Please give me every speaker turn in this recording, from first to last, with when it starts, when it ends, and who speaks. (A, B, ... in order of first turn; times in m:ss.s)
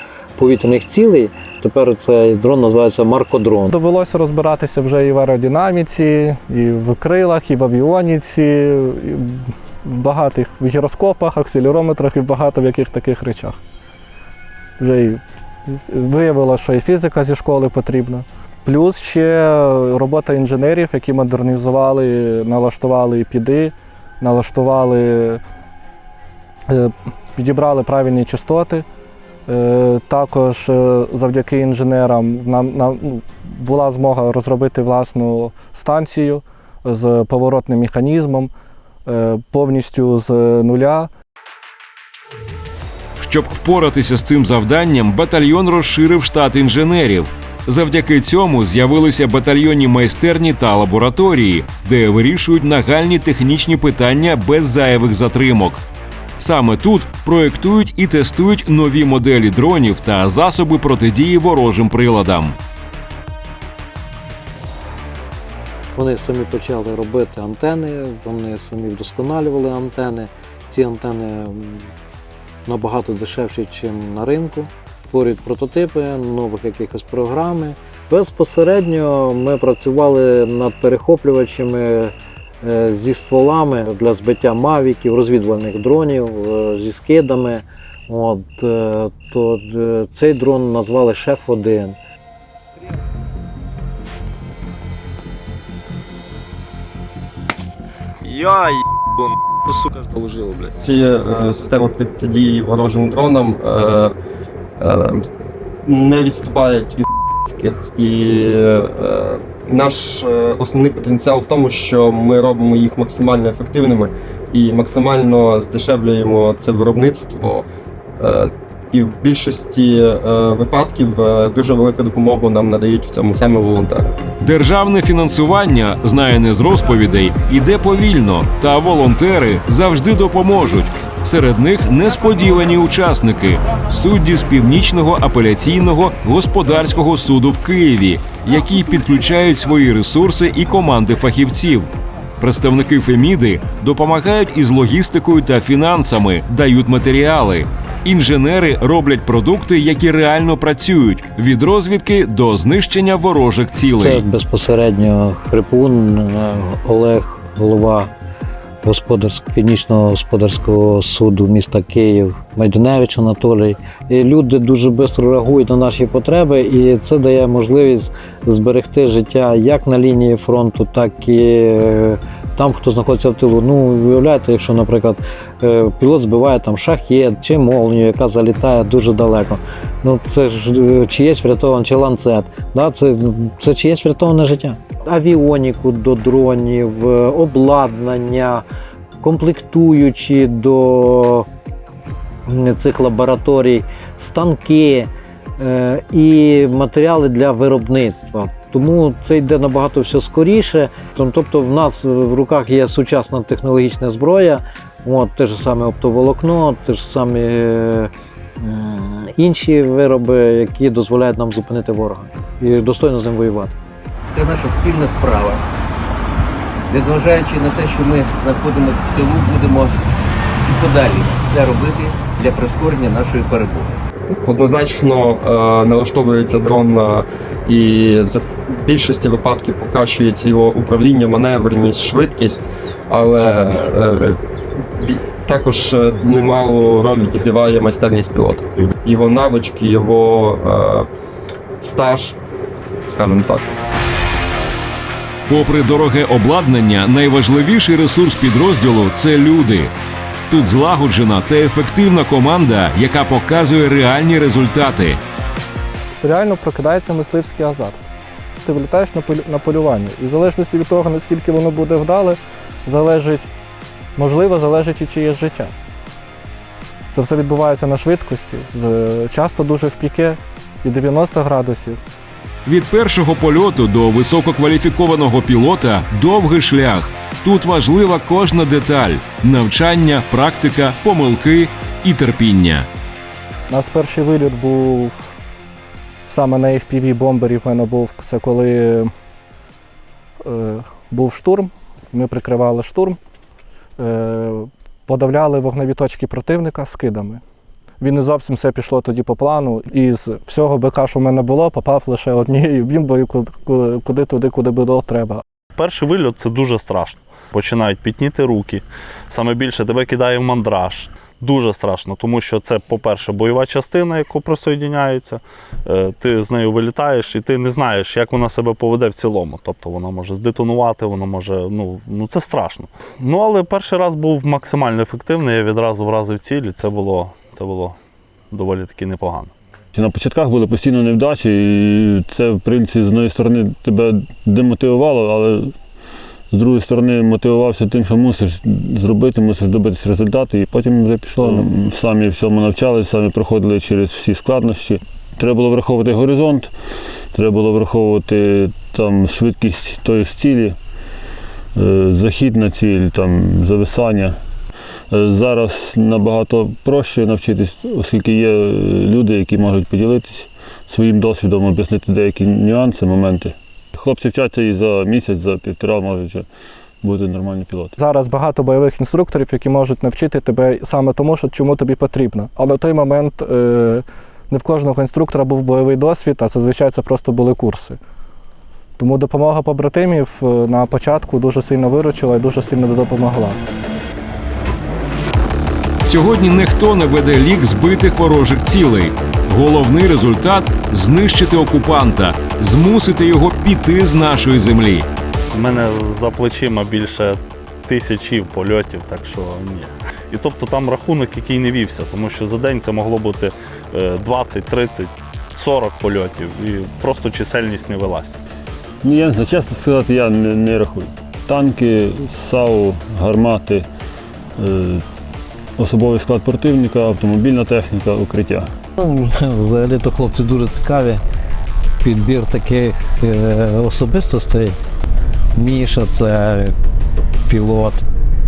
0:00.4-0:03.7 A
0:03.7-0:13.6 B
0:14.8-0:25.4 B
0:26.7-0:28.8 B
0:29.5-0:38.5 B
0:39.0-0:41.1 B
0:43.2-0:55.8 C
0:56.4-1:02.6 C
1:05.9-1:11.9 A
1:12.6-1:32.0 A
1:38.2-1:40.7 D
1:40.8-1:44.1 E
1:44.8-1:45.2 E
1:45.9-1:57.6 E
1:47.5-1:47.9 F
1:58.2-2:04.1 E
2:04.4-2:34.2 C
2:34.0-2:38.1 A
2:38.8-3:08.6 A
3:09.2-3:11.5 A
3:12.5-3:33.7 A
3:34.3-3:35.6 G
3:36.9-3:39.9 G
3:40.6-3:43.9 G
3:44.5-3:54.4 E
3:55.0-4:01.0 E
4:01.8-4:02.4 E
4:03.1-4:03.8 E
4:05.5-4:09.9 C
4:10.5-4:15.2 C
4:16.2-4:18.0 B
4:18.6-4:23.5 B
4:24.2-4:25.7 B
4:27.1-4:32.0 B
4:32.6-4:42.9 C
4:43.7-4:45.3 B
4:46.3-4:49.1 B
4:50.4-4:53.2 B
4:54.0-4:57.4 B
4:58.0-5:05.4 B
5:05.8-5:28.0 H
5:28.5-5:29.5 H
5:29.9-5:35.7 F
5:36.5-5:46.7 F
5:47.3-5:50.8 F
5:51.7-5:54.4 F
5:55.1-6:06.5 F
6:07.0-6:07.9 F
6:08.0-6:18.0 B
6:19.0-6:23.6 B
6:26.0-6:35.1 C
6:35.5-6:48.4 H
6:49.0-6:53.9 F
6:54.6-6:55.0 F
6:55.8-6:58.7 F
6:59.0-7:01.2 A
7:02.0-7:04.8 A
7:05.6-7:06.7 A
7:07.5-7:08.0 A